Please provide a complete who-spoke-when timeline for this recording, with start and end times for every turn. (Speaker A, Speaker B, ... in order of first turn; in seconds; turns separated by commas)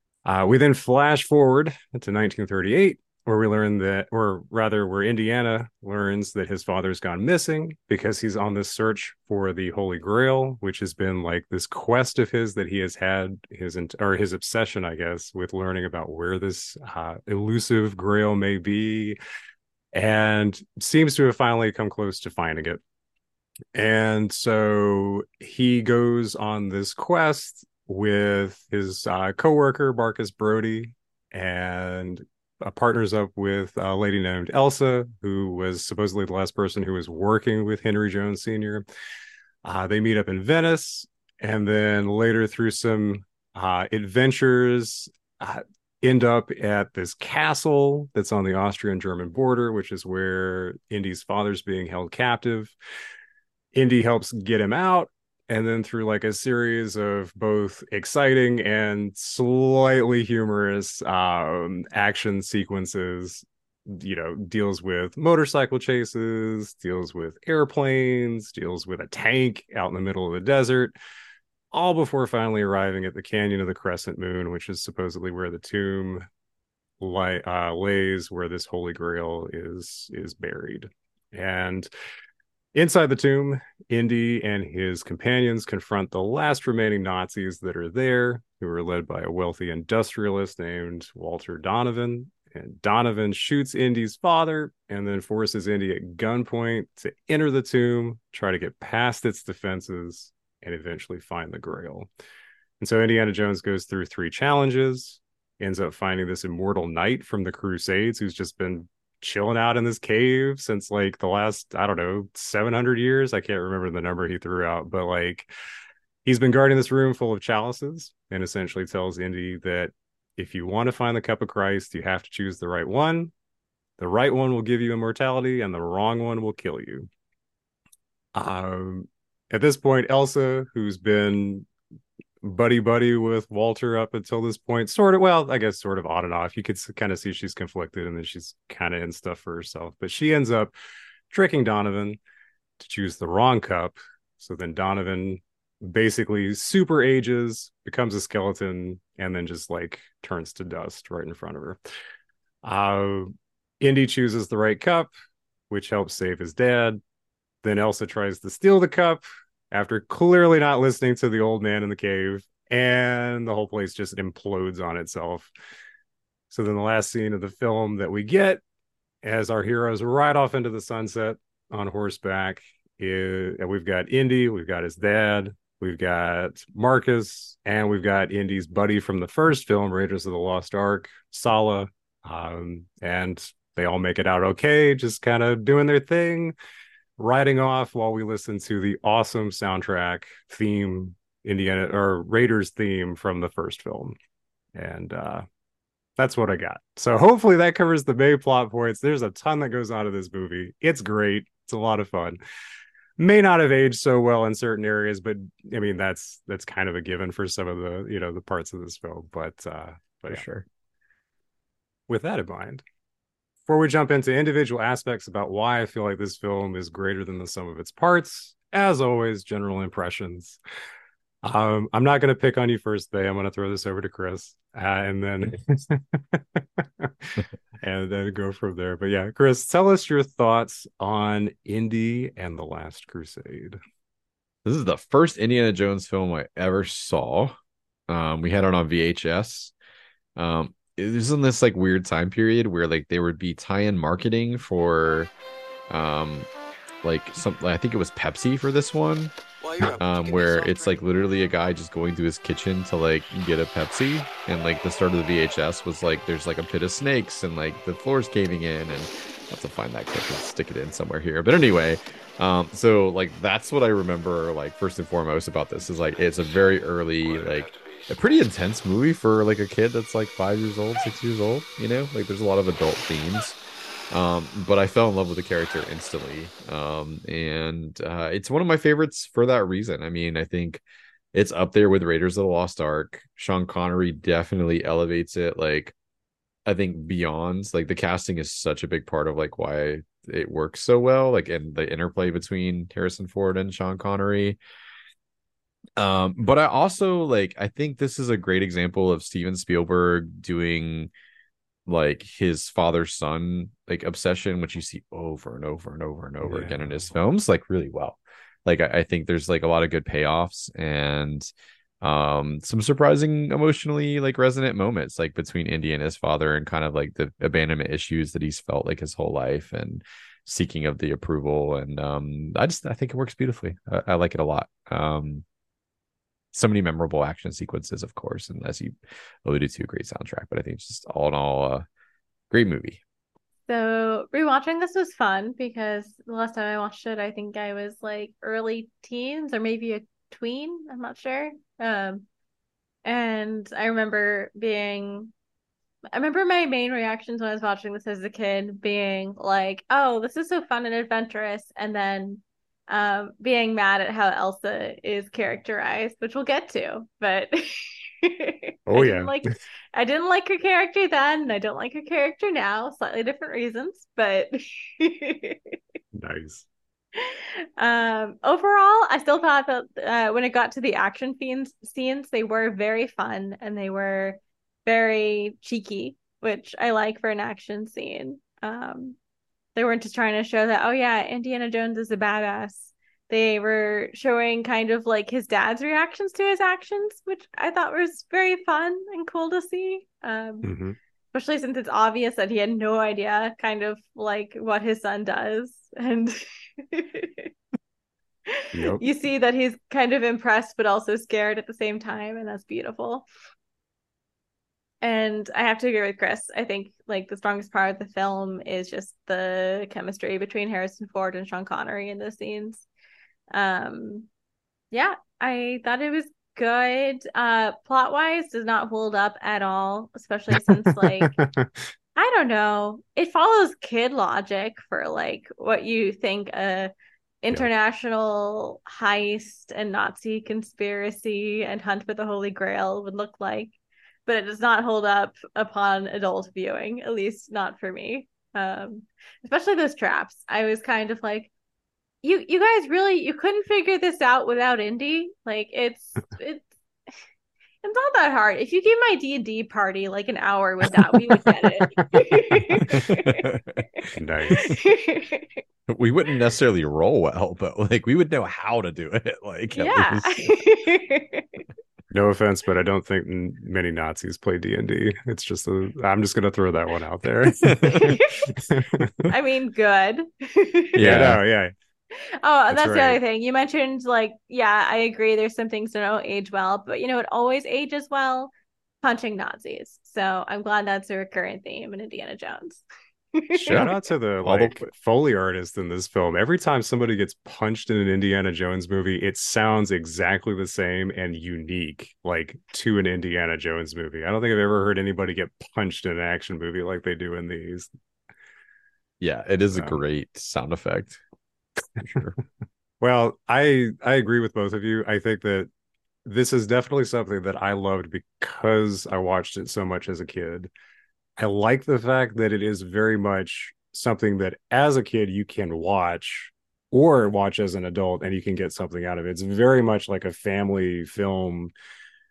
Speaker A: 0.2-19.2, Speaker A: 19.9-22.8, Speaker A: 23.7-38.8, Speaker A: 39.6-52.7, Speaker A: 53.7-70.9, Speaker A: 71.7-76.2, Speaker A: 77.0-81.9, Speaker A: 82.7-102.1, Speaker A: 102.8-115.5, Speaker A: 116.2-123.3, Speaker A: 124.0-127.1, Speaker A: 128.3-131.7, Speaker A: 132.4-140.7, Speaker A: 141.3-142.2, Speaker A: 142.8-151.8, Speaker A: 152.6-155.1, Speaker A: 155.7-157.0, Speaker A: 157.6-165.5, Speaker A: 166.5-168.6, Speaker A: 169.2-186.5, Speaker A: 187.2-194.1, Speaker A: 194.7-195.4, Speaker A: 196.2-202.4, Speaker A: 203.2-210.4, Speaker B: 210.3-210.7, Speaker A: 212.1-212.8, Speaker A: 213.7-220.6, Speaker A: 221.4-233.8, Speaker B: 234.6-237.5, Speaker B: 238.1-239.7, Speaker B: 240.3-245.3, Speaker B: 245.9-246.5, Speaker B: 247.0-249.3, Speaker B: 249.8-273.6, Speaker B: 274.1-280.8, Speaker B: 281.3-285.9, Speaker B: 286.6-294.6, Speaker B: 296.0-301.1, Speaker B: 301.9-311.5, Speaker A: 306.4-307.1, Speaker B: 312.0-325.4, Speaker B: 326.5-328.9, Speaker B: 329.4-331.8, Speaker B: 332.5-333.0, Speaker C: 333.7-342.2, Speaker C: 343.0-345.3, Speaker C: 346.1-365.7, Speaker A: 358.9-359.4, Speaker A: 366.1-366.6, Speaker C: 367.1-379.2, Speaker C: 379.7-390.7, Speaker A: 390.6-391.0, Speaker C: 391.3-397.5, Speaker C: 398.5-403.2, Speaker A: 398.7-399.0, Speaker C: 405.0-412.9, Speaker C: 413.5-414.3, Speaker C: 414.9-421.3, Speaker A: 420.7-421.7, Speaker C: 422.1-426.9, Speaker C: 427.4-433.7, Speaker C: 434.2-441.5, Speaker C: 442.2-446.7, Speaker C: 447.8-453.4, Speaker A: 451.8-452.8, Speaker B: 452.9-454.8, Speaker A: 454.1-454.6, Speaker C: 454.5-455.6, Speaker B: 455.9-460.6, Speaker C: 459.7-461.6, Speaker A: 462.1-469.1, Speaker B: 467.6-468.1, Speaker C: 467.9-468.5, Speaker C: 469.3-471.2, Speaker B: 470.9-471.4, Speaker A: 471.0-471.7, Speaker C: 472.1-483.9, Speaker A: 472.7-473.2, Speaker B: 483.6-483.9, Speaker A: 483.6-497.9, Speaker B: 484.4-484.9, Speaker B: 499.2-501.2, Speaker A: 499.7-500.0, Speaker B: 502.0-502.4, Speaker A: 503.0-505.7, Speaker A: 506.2-510.7, Speaker A: 511.4-521.7